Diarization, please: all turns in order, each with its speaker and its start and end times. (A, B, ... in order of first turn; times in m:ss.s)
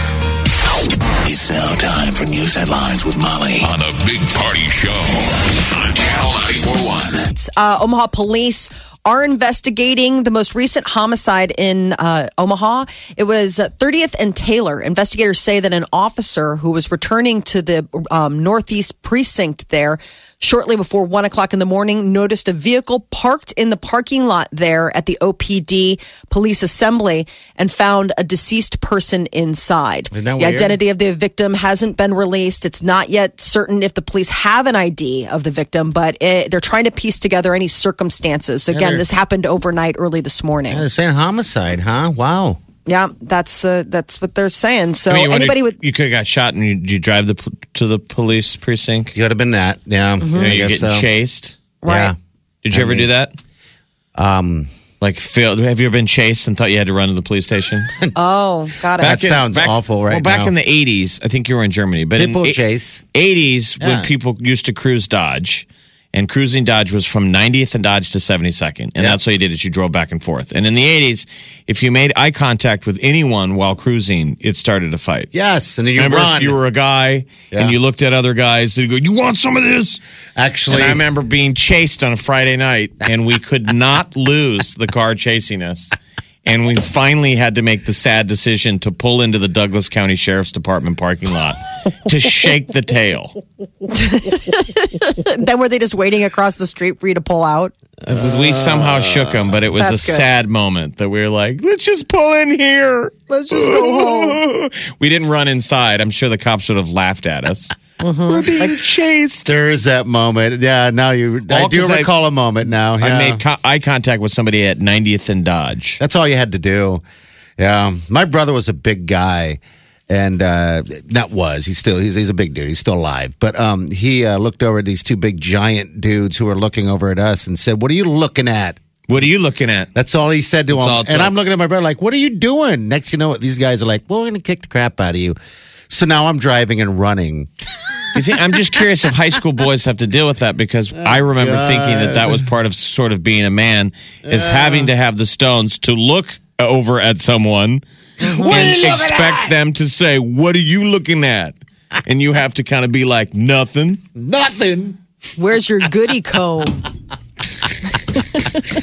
0:01.2-0:07.3 A
0:07.3-0:40.8 B
0:30.1-0:30.8 C
0:38.7-0:39.0 C
0:40.7-0:42.6 C
0:42.9-0:45.8 B
0:45.1-0:49.1 D
0:49.1-0:51.1 C
0:50.2-0:50.5 B
0:50.3-0:51.6 D
0:51.8-0:52.1 B
0:51.9-0:52.2 C
0:52.6-0:53.3 D
0:52.7-0:53.1 C
0:54.2-0:54.7 C
0:55.0-0:57.9 D
0:58.2-0:59.2 B
0:59.0-1:00.5 C
0:59.0-1:02.6 D
1:02.2-1:03.0 C
1:03.1-1:15.3 D
1:03.8-1:04.1 C
1:15.3-1:16.6 C
1:16.0-1:20.0 D
1:20.4-1:21.1 C
1:20.7-1:25.9 D
1:26.4-1:33.4 D
1:33.9-1:37.7 B
1:38.0-1:39.6 C
1:38.1-1:47.8 D
1:39.8-1:40.3 B
1:43.3-1:44.4 B
1:48.0-1:48.6 B
1:48.3-1:49.5 D
1:49.4-1:53.4 C
1:51.5-1:52.1 D
1:53.0-1:56.0 D
1:56.0-1:57.0 C
1:57.6-2:08.8 C
2:09.1-2:09.9 D
2:10.0-2:15.4 C
2:10.7-2:11.3 D
2:15.9-2:17.5 C
2:18.1-2:27.8 D
2:21.0-2:22.5 C
2:24.2-2:24.9 C
2:28.2-2:29.5 C
2:28.3-2:28.7 B
2:28.5-2:34.0 D
2:34.2-2:35.0 C
2:35.4-2:36.8 B